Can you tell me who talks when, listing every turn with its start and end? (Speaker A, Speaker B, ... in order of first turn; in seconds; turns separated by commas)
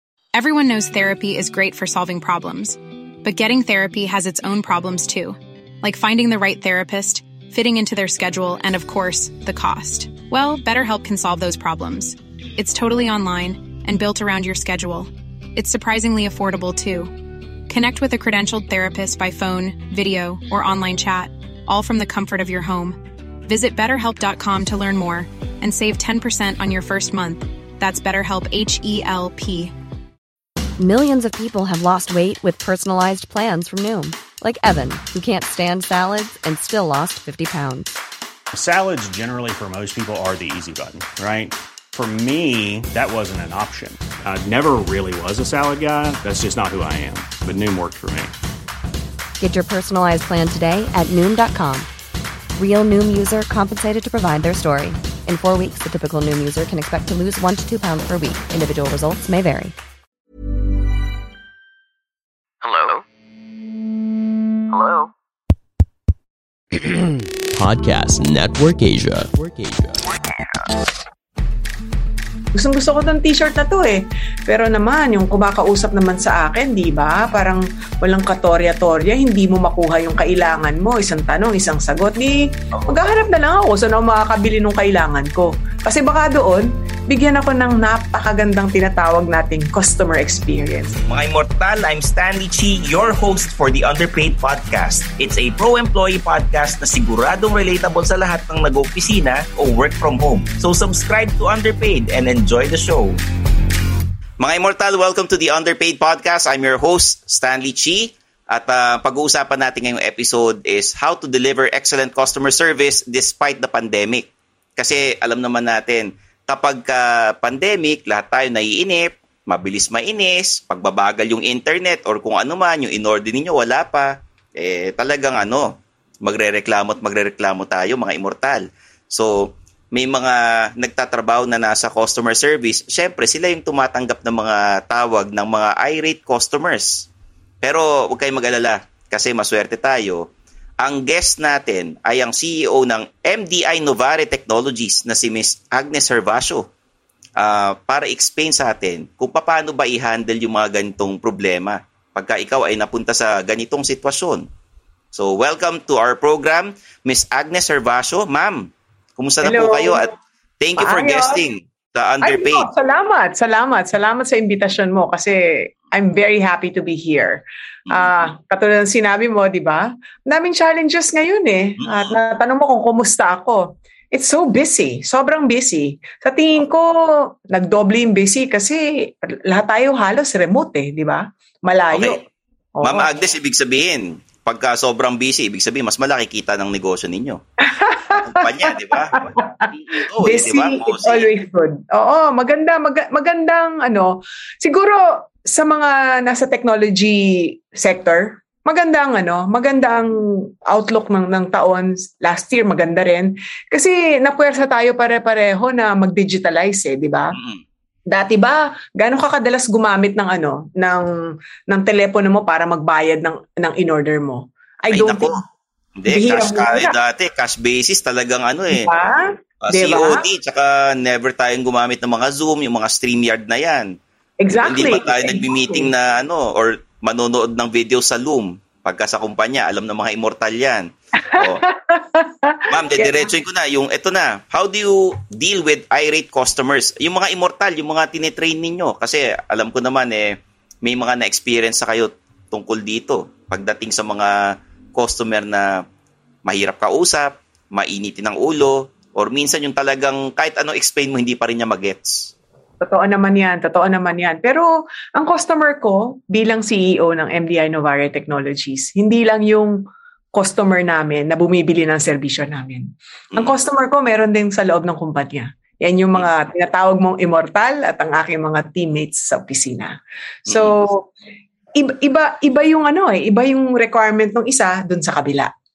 Speaker A: 0.3-17.1, Speaker A: 17.7-29.7, Speaker B: 30.8-37.9, Speaker C: 38.5-48.3, Speaker B: 49.4-51.9, Speaker B: 52.5-59.7, Speaker D: 67.6-69.9, Speaker E: 72.5-91.0, Speaker F: 91.1-103.2, Speaker F: 104.4-137.1, Speaker F: 137.6-140.3, Speaker F: 140.8-146.7, Speaker F: 147.4-154.4, Speaker F: 155.1-160.1, Speaker E: 159.4-160.1, Speaker F: 160.6-162.7, Speaker E: 160.8-161.4, Speaker E: 162.2-176.9, Speaker F: 171.8-172.1, Speaker E: 177.5-182.2, Speaker F: 181.9-182.2, Speaker E: 182.8-183.1, Speaker F: 182.8-187.4, Speaker E: 187.6-200.1, Speaker F: 188.1-191.3, Speaker E: 200.7-207.3, Speaker E: 208.1-211.0, Speaker E: 211.7-215.3, Speaker F: 214.9-215.4, Speaker F: 216.0-218.9, Speaker E: 216.1-216.9, Speaker E: 218.7-220.2, Speaker F: 219.6-223.9, Speaker E: 224.4-225.9, Speaker F: 224.5-231.6, Speaker E: 231.2-233.2, Speaker F: 232.7-245.8, Speaker F: 246.4-252.3, Speaker E: 252.8-259.7, Speaker E: 260.3-269.9, Speaker E: 270.5-271.1, Speaker E: 271.8-275.5